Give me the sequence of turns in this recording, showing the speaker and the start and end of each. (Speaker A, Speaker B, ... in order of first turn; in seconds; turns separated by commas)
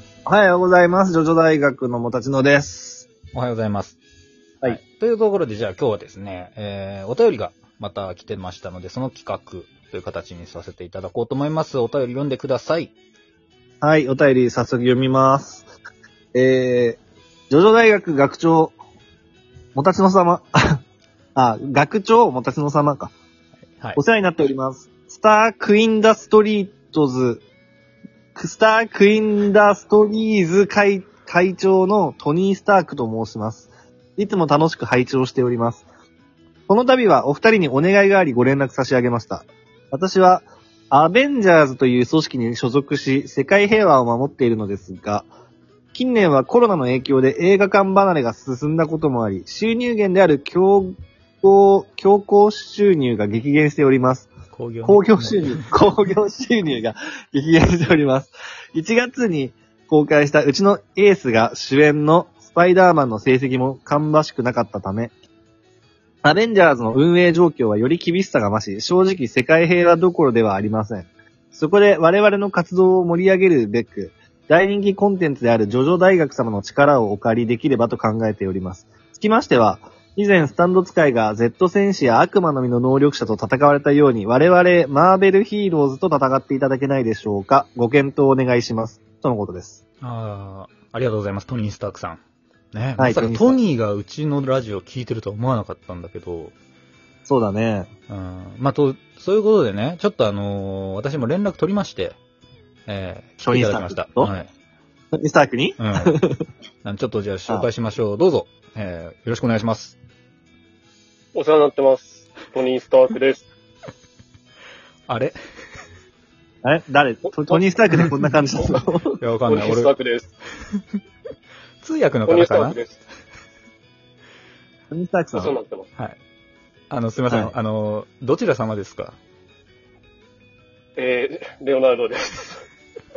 Speaker A: 0.2-3.1, Speaker B: 3.3-4.0, Speaker B: 4.6-12.9, Speaker A: 13.8-15.6, Speaker A: 16.3-17.0, Speaker A: 17.5-18.7, Speaker A: 19.7-20.8, Speaker A: 21.4-23.1, Speaker A: 23.9-27.4, Speaker A: 28.3-35.8, Speaker A: 36.7-45.3, Speaker A: 45.9-54.3, Speaker B: 54.5-55.6, Speaker A: 54.8-65.1, Speaker A: 66.2-89.8, Speaker B: 90.0-92.2, Speaker B: 92.7-96.5, Speaker A: 93.0-93.6, Speaker A: 97.2-97.9, Speaker B: 98.1-102.2, Speaker B: 102.9-104.5, Speaker A: 103.5-104.3, Speaker A: 105.1-106.4, Speaker B: 105.8-106.1, Speaker B: 106.8-110.0, Speaker C: 111.3-113.5, Speaker B: 115.1-115.3, Speaker A: 116.6-119.2, Speaker B: 119.2-119.9, Speaker C: 119.4-120.3, Speaker B: 121.8-122.8, Speaker C: 122.2-123.0, Speaker A: 124.9-125.5, Speaker C: 125.3-125.9, Speaker B: 126.9-129.2, Speaker A: 127.3-127.5, Speaker C: 131.0-132.6